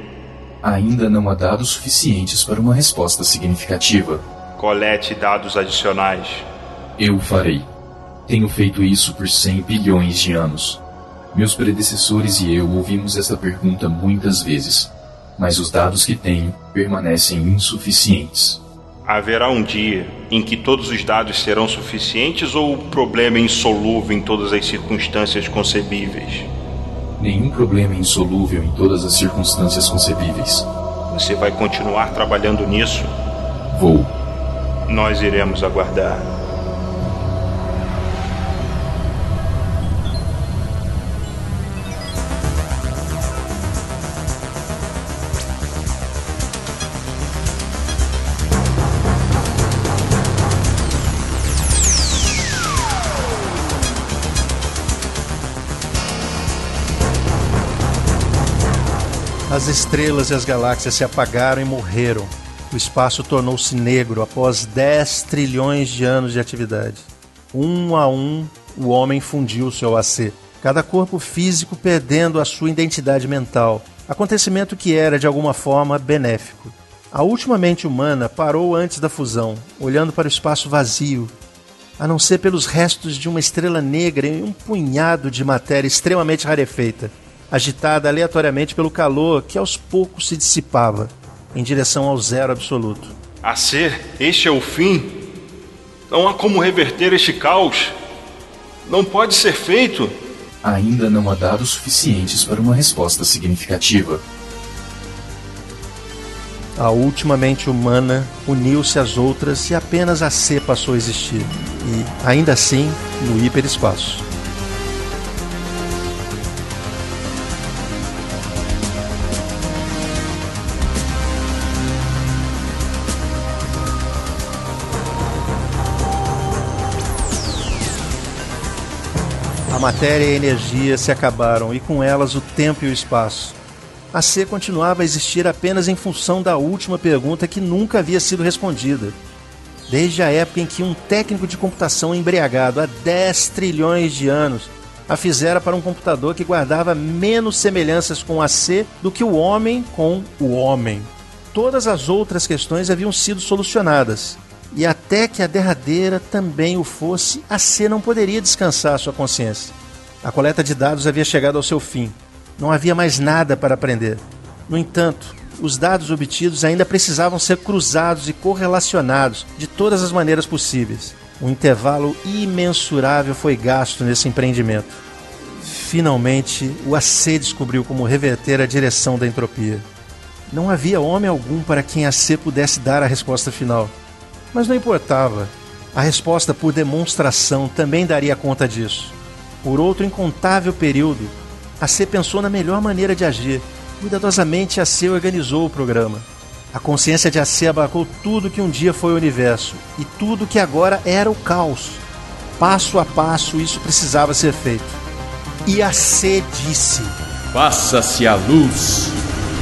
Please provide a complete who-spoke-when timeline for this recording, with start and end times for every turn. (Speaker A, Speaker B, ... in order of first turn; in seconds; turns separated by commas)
Speaker A: 0.6-4.2, Speaker B: 4.6-6.5, Speaker A: 7.0-7.7, Speaker A: 8.3-10.8, Speaker A: 11.3-18.6, Speaker B: 19.0-26.5, Speaker A: 27.2-30.6, Speaker B: 31.1-33.1, Speaker A: 33.7-34.1, Speaker B: 34.9-36.2, Speaker C: 59.5-81.3, Speaker C: 82.0-93.1, Speaker B: 93.4-95.2, Speaker B: 96.1-98.0, Speaker B: 98.8-100.1, Speaker A: 100.6-104.2, Speaker C: 106.8-114.2, Speaker C: 129.7-133.6, Speaker C: 134.1-139.2, Speaker C: 139.9-175.0, Speaker C: 175.6-179.9, Speaker C: 180.5-183.9, Speaker C: 184.5-202.0, Speaker C: 202.6-205.0, Speaker C: 205.6-207.2, Speaker A: 207.5-209.1